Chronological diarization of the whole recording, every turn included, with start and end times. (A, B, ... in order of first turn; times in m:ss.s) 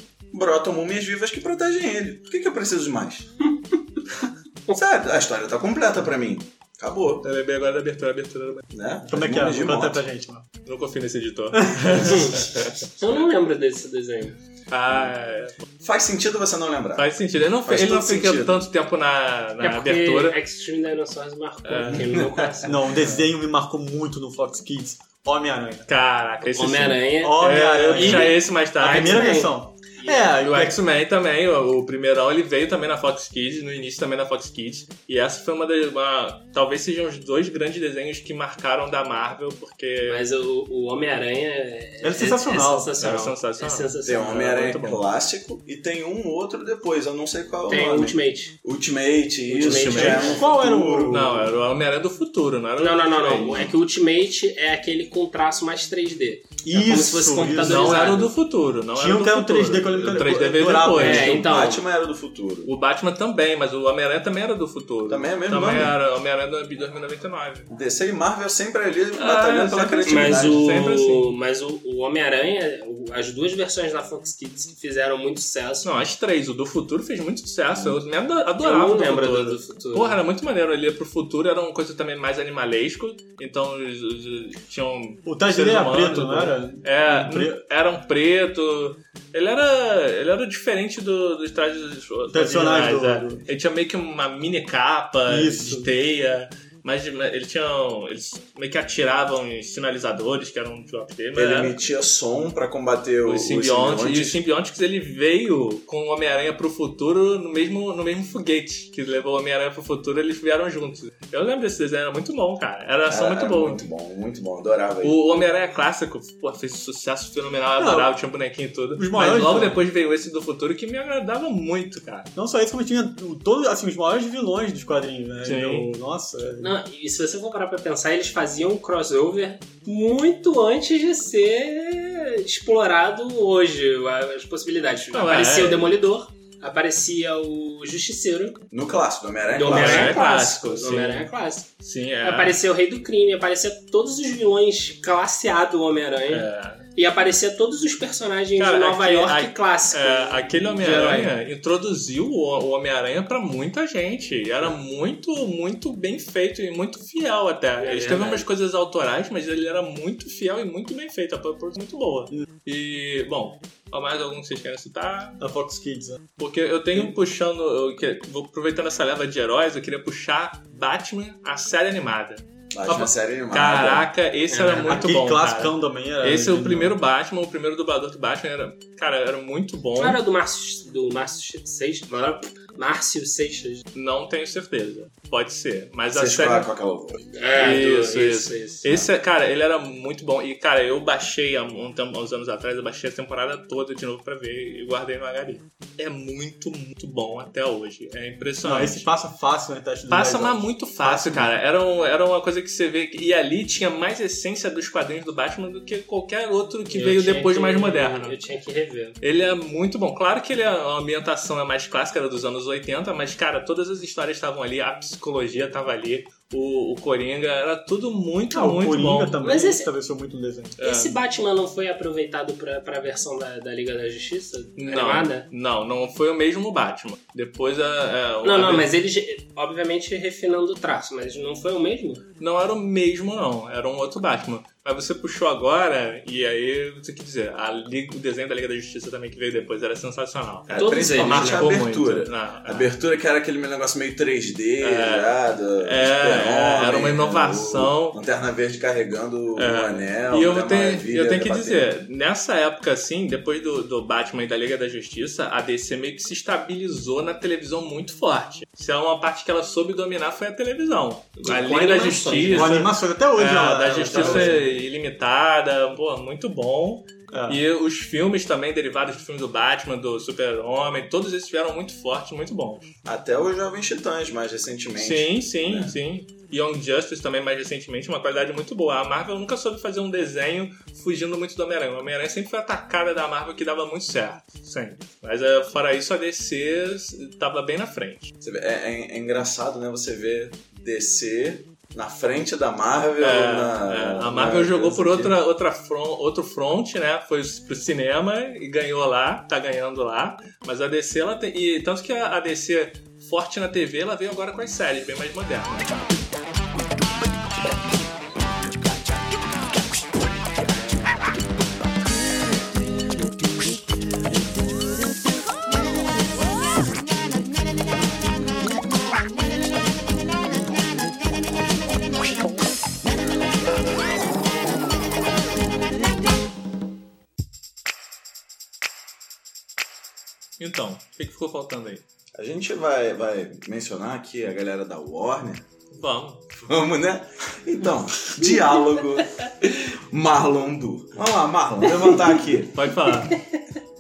0:00.3-0:03.5 A
0:04.7-0:07.3 A
0:07.2-0:08.6 B
0:08.7-0:10.0 A
0:09.1-0:10.5 C
0:10.7-0:12.9 B
0:11.5-0:12.1 C
0:12.0-0:14.4 D
0:14.7-0:15.6 B
0:14.9-0:15.1 A
0:15.8-0:18.7 A
0:17.0-0:20.4 B
0:19.6-0:22.8 D
0:21.6-0:22.2 B
0:21.9-0:22.5 A
0:22.6-0:25.9 C
0:25.9-0:29.4 B
0:26.5-0:30.2 D
0:27.2-0:30.8 C
0:30.3-0:40.2 B
0:40.1-0:44.8 D
0:42.0-0:42.9 C
0:43.0-0:43.9 B
0:44.0-0:51.5 A
0:44.5-0:45.0 B
0:47.7-0:48.6 D
0:49.5-0:50.4 D
0:49.6-0:50.4 B
0:50.1-0:51.5 C
0:51.1-0:53.7 B
0:52.8-0:58.3 D
0:56.6-0:58.2 C
0:57.5-1:01.4 B
0:59.0-1:01.5 C
1:01.0-1:01.8 D
1:01.2-1:02.7 A
1:02.6-1:07.7 B
1:05.1-1:06.0 A
1:07.7-1:10.6 A
1:09.2-1:11.3 B
1:10.0-1:15.9 D
1:15.8-1:41.8 B
1:18.6-1:20.2 D
1:25.2-1:27.6 C
1:32.3-1:33.4 C
1:35.3-1:35.9 C
1:41.4-1:44.4 A
1:43.2-1:53.9 B
1:53.1-1:55.2 A
1:55.0-2:02.3 B
1:57.8-1:58.1 C
1:59.0-1:59.8 C
2:02.4-2:06.8 C
2:05.4-2:05.9 B
2:06.6-2:18.6 D
2:15.1-2:16.0 B
2:18.7-2:20.2 A
2:19.5-2:21.7 D
2:19.7-2:21.3 B
2:21.8-2:22.6 B
2:22.2-2:31.3 D
2:26.3-2:26.9 B
2:28.6-2:45.4 B
2:37.8-2:38.5 D
2:45.4-2:46.2 C
2:46.4-3:00.2 B
2:52.7-2:54.1 A
2:54.5-2:55.0 D
2:54.8-2:57.0 C
3:00.0-3:03.8 D
3:03.9-3:06.7 B
3:06.1-3:07.3 A
3:07.4-3:09.1 D
3:07.6-3:19.1 B
3:18.6-3:21.5 C
3:20.1-3:28.4 B
3:26.9-3:29.2 D
3:29.2-3:39.4 B
3:38.5-3:40.8 C
3:39.4-3:39.9 D
3:40.8-3:41.2 B
3:40.8-3:45.5 D
3:44.8-3:48.9 B
3:48.4-3:52.2 D
3:52.4-4:02.9 B
4:00.7-4:11.9 A
4:00.7-4:01.7 D
4:04.8-4:08.2 B
4:09.6-4:32.9 B
4:21.5-4:22.7 D
4:21.9-4:24.7 C
4:24.1-4:24.5 A
4:27.3-4:27.6 C
4:33.0-4:36.0 A
4:35.0-4:48.3 B
4:48.4-4:55.4 A
4:53.2-5:06.1 B
5:30.6-5:32.0 B
5:32.4-5:35.7 A
5:35.9-5:36.4 B
5:36.6-5:42.8 A
5:42.7-5:43.4 B